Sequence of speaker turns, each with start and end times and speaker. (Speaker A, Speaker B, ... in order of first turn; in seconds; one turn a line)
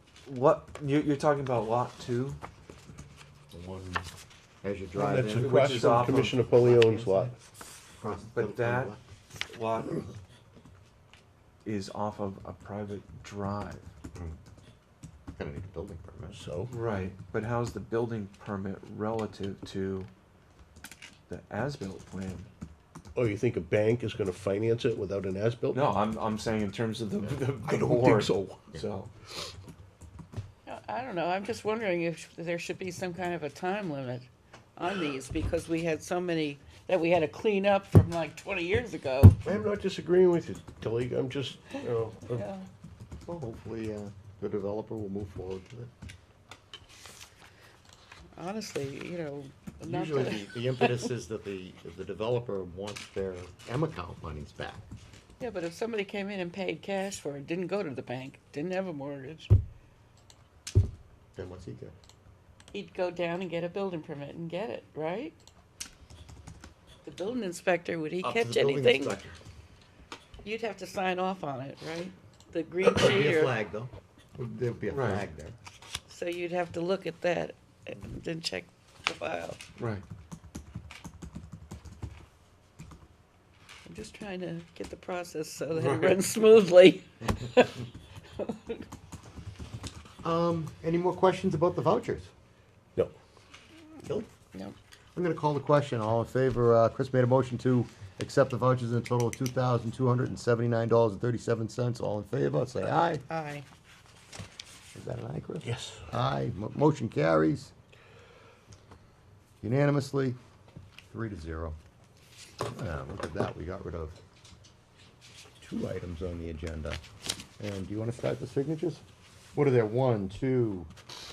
Speaker A: 0.3-2.4
Speaker B: 3.5-4.1
Speaker B: 4.6-7.3
Speaker C: 4.9-7.3
Speaker A: 5.4-6.4
Speaker B: 7.9-9.0
Speaker A: 8.0-8.9
Speaker A: 9.5-10.1
Speaker A: 11.6-13.9
Speaker B: 15.4-16.4
Speaker C: 16.3-16.7
Speaker A: 16.7-20.1
Speaker A: 21.3-22.5
Speaker C: 23.1-25.9
Speaker A: 25.7-29.1
Speaker C: 27.6-28.7
Speaker D: 30.7-39.4
Speaker C: 39.4-42.5
Speaker D: 42.3-42.7
Speaker B: 43.3-45.9
Speaker D: 48.4-51.1
Speaker B: 49.8-54.9
Speaker D: 55.4-59.5
Speaker B: 61.4-61.9
Speaker D: 62.7-65.4
Speaker D: 67.0-69.2
Speaker B: 68.2-69.4
Speaker D: 70.4-73.6
Speaker B: 72.8-75.6
Speaker A: 74.9-75.3
Speaker D: 76.1-79.6
Speaker A: 79.8-80.0
Speaker D: 83.9-87.8
Speaker A: 85.7-86.2
Speaker D: 88.4-88.9
Speaker B: 90.2-92.3
Speaker B: 94.0-94.3
Speaker B: 95.2-103.2
Speaker D: 103.3-103.7
Speaker B: 104.9-107.7
Speaker C: 105.6-106.0
Speaker B: 109.6-110.4
Speaker B: 111.1-111.8
Speaker B: 112.7-114.2
Speaker B: 115.6-117.0
Speaker B: 117.6-119.0
Speaker B: 119.5-120.9